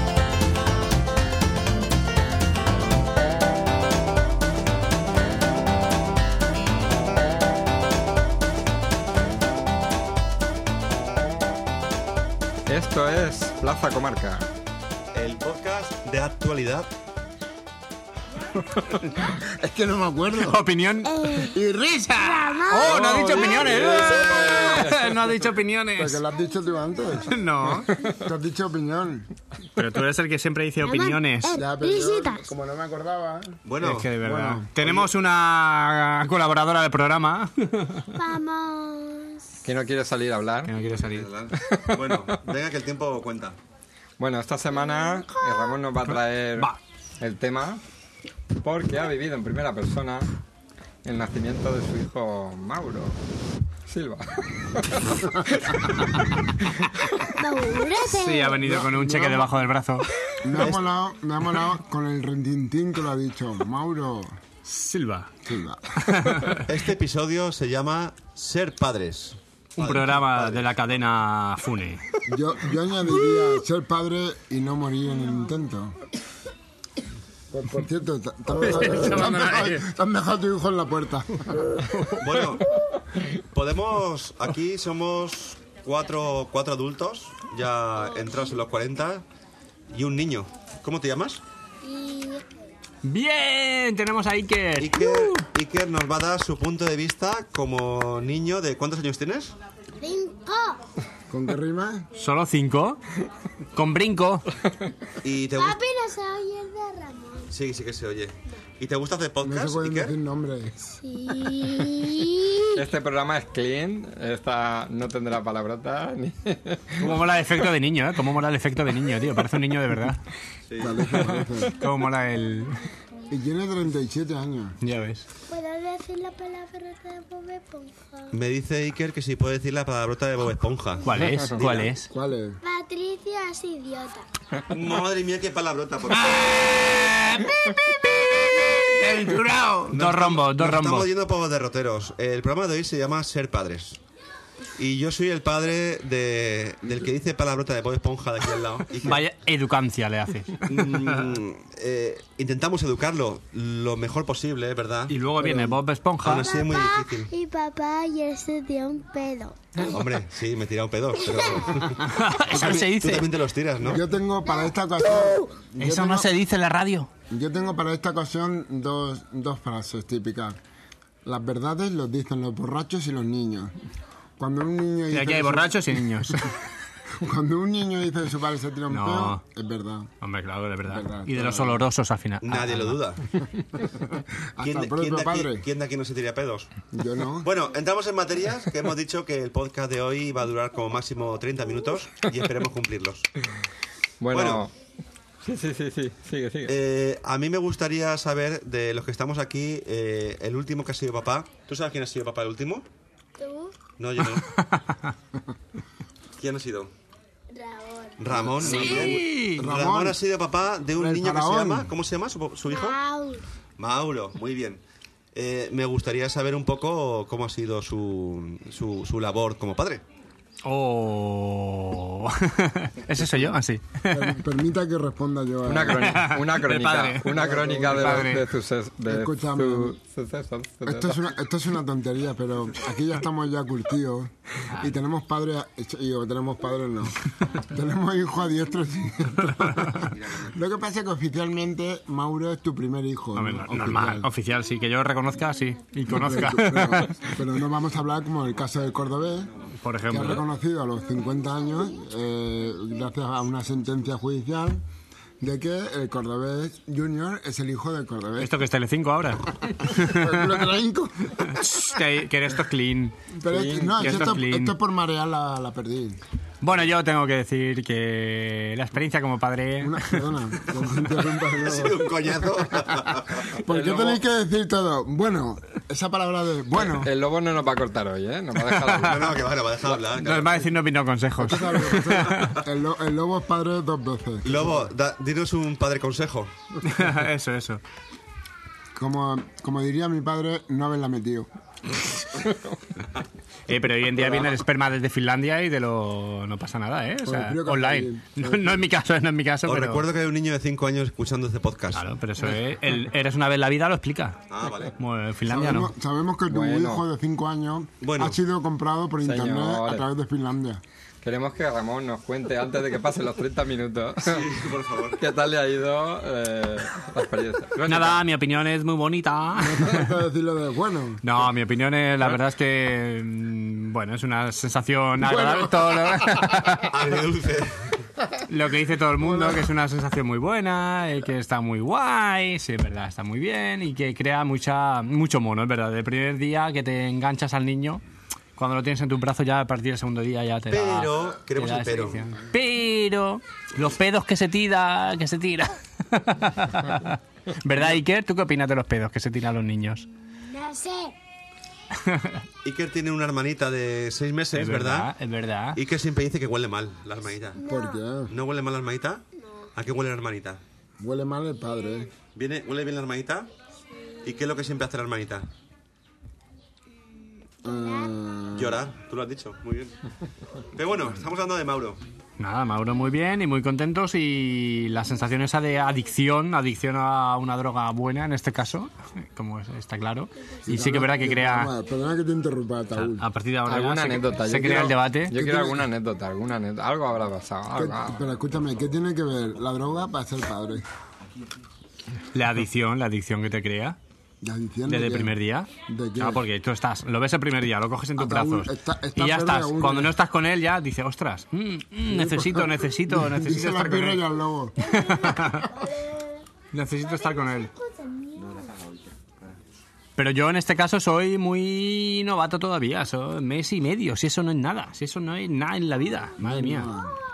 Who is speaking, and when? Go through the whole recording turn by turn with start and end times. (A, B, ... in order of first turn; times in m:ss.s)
0:12.7-0:14.5 A
0:15.1-0:16.9 B
0:18.7-0:20.6 C
0:20.4-0:21.4 D
0:21.0-0:21.6 E
0:21.4-0:22.6 C
0:22.2-0:24.9 E
0:22.7-0:26.2 D
0:22.8-0:24.7 B
0:24.8-0:25.2 A
0:26.0-0:27.4 C
0:27.2-0:27.9 D
0:28.0-0:29.3 C
0:29.8-0:31.6 D
0:30.8-0:32.5 E
0:31.5-0:33.6 C
0:33.6-0:34.1 B
0:33.8-0:38.2 D
0:34.2-0:34.7 C
0:34.8-0:35.1 B
0:38.1-0:39.6 E
0:39.6-0:40.7 A
0:40.7-0:41.3 D
0:40.8-0:43.6 B
0:41.5-0:42.4 A
0:44.2-0:47.8 A
0:45.0-0:45.7 E
0:46.1-0:46.8 D
0:48.6-0:50.3 A
0:51.0-0:53.2 A
0:53.9-0:57.0 A
0:57.4-0:58.6 E
0:58.1-1:00.7 D
0:58.6-0:59.6 C
1:00.4-1:04.4 C
1:04.6-1:05.3 D
1:05.4-1:06.5 C
1:06.0-1:06.7 D
1:06.6-1:10.7 B
1:09.8-1:12.2 D
1:12.3-1:16.0 C
1:17.5-1:21.8 C
1:18.6-1:19.9 D
1:21.8-1:22.2 D
1:22.2-1:22.7 B
1:23.4-1:29.2 B
1:29.9-1:31.4 B
1:31.8-1:32.6 E
1:33.0-1:35.5 D
1:34.8-1:39.5 B
1:40.0-1:40.8 E
1:41.3-1:42.1 C
1:42.2-1:43.0 D
1:43.7-1:44.5 D
1:45.2-1:45.8 B
1:45.6-1:47.5 E
1:47.5-1:50.2 B
1:49.4-1:50.8 C
1:50.8-1:52.8 E
1:52.7-1:57.2 A
1:57.0-2:00.2 D
2:00.7-2:01.5 B
2:00.8-2:01.8 C
2:01.8-2:02.8 D
2:03.3-2:04.8 C
2:04.8-2:05.3 D
2:05.5-2:08.4 E
2:08.3-2:11.9 B
2:11.0-2:12.1 D
2:12.1-2:12.6 C
2:12.6-2:14.3 E
2:14.7-2:16.8 B
2:16.1-2:21.1 D
2:19.9-2:24.0 B
2:24.8-2:29.2 B
2:29.0-2:31.1 D
2:30.6-2:35.1 B
2:35.1-2:36.5 D
2:35.4-2:35.8 C
2:36.2-2:37.3 B
2:36.3-2:39.9 E
2:39.8-2:44.0 B
2:41.2-2:41.9 E
2:42.0-2:43.3 D
2:43.8-2:46.3 C
2:44.7-2:45.3 E
2:45.8-2:47.1 D
2:47.3-2:50.6 C
2:51.2-2:53.8 C
2:54.4-2:56.6 C
2:55.1-2:56.5 D
2:57.2-3:00.1 C
2:58.9-2:59.4 D
3:00.2-3:03.0 D
3:00.9-3:01.8 C
3:02.4-3:03.3 B
3:03.6-3:05.7 C
3:04.6-3:06.7 B
3:06.9-3:07.5 C
3:07.4-3:13.3 B
3:14.2-3:14.7 A
3:14.3-3:14.7 B
3:15.4-3:16.8 A
3:16.7-3:22.9 B
3:23.4-3:23.8 E
3:24.0-3:24.5 B
3:24.4-3:25.1 D
3:26.4-3:26.9 B
3:27.5-3:29.2 E
3:28.2-3:33.0 B
3:28.6-3:29.7 D
3:29.6-3:30.2 C
3:31.0-3:31.9 C
3:32.7-3:33.4 E
3:33.8-3:34.8 B
3:35.3-3:40.0 B
3:40.6-3:44.4 D
3:44.1-3:46.1 C
3:45.6-3:51.3 A
3:45.9-3:48.5 D
3:47.3-3:48.3 C
3:49.1-3:50.0 C
3:50.8-4:04.3 C
4:00.1-4:00.5 B
4:03.4-4:07.4 D
4:06.1-4:09.5 C
4:09.8-4:10.4 D
4:10.1-4:14.8 C
4:15.4-4:18.5 C
4:18.4-4:20.5 D
4:19.7-4:21.6 C
4:21.4-4:23.2 D
4:23.3-4:26.2 C
4:23.5-4:24.3 A
4:24.0-4:24.8 D
4:26.6-4:30.3 D
4:29.8-4:37.1 C
4:31.6-4:33.6 B
4:33.6-4:34.2 A
4:36.7-4:39.4 A
4:38.6-4:39.2 D
4:38.9-4:40.7 B
4:40.0-4:42.6 D
4:41.4-4:44.9 C
4:44.4-4:46.5 B
4:46.8-4:47.8 D
4:49.0-4:52.0 C
4:53.7-5:00.0 D
4:57.2-4:58.8 C
4:59.7-5:02.0 B
5:01.9-5:05.9 D
5:04.5-5:04.9 B
5:05.5-5:10.8 C
5:06.5-5:07.1 A
5:08.0-5:08.4 B
5:09.2-5:10.1 A
5:11.2-5:14.5 A
5:14.2-5:15.2 B
5:15.2-5:18.2 A
5:17.9-5:20.1 D
5:19.6-5:21.2 C
5:21.2-5:26.9 D
5:25.2-5:26.4 C
5:26.9-5:27.9 B
5:28.5-5:38.0 D
5:29.2-5:29.6 C
5:38.6-5:50.0 D
5:40.7-5:42.3 B
5:50.1-5:51.2 E
5:52.0-5:52.4 D
5:52.6-5:55.1 B
5:54.5-5:55.8 D
5:55.8-5:57.6 B
5:57.6-5:58.0 E
5:57.6-5:58.3 C
5:58.3-6:00.6 B
5:59.4-5:59.7 E
6:01.0-6:02.1 C
6:02.3-6:03.5 B
6:04.2-6:05.5 B
6:07.6-6:08.8 C
6:07.6-6:08.0 E
6:08.5-6:10.0 B
6:10.7-6:12.0 B
6:12.4-6:21.7 D
6:20.7-6:23.2 C
6:23.0-6:25.4 D
6:23.7-6:28.2 A
6:24.6-6:25.9 C
6:27.8-6:30.9 C
6:32.3-6:34.0 D
6:34.4-6:35.3 C
6:34.9-6:44.2 D
6:35.9-6:36.4 C
6:38.2-6:40.1 C
6:42.1-6:44.9 C
6:44.8-6:46.5 E
6:44.8-6:45.7 D
6:46.7-6:47.7 D
6:47.0-6:48.8 E
6:48.4-6:49.6 B
6:50.2-6:56.9 D
6:56.4-6:57.2 C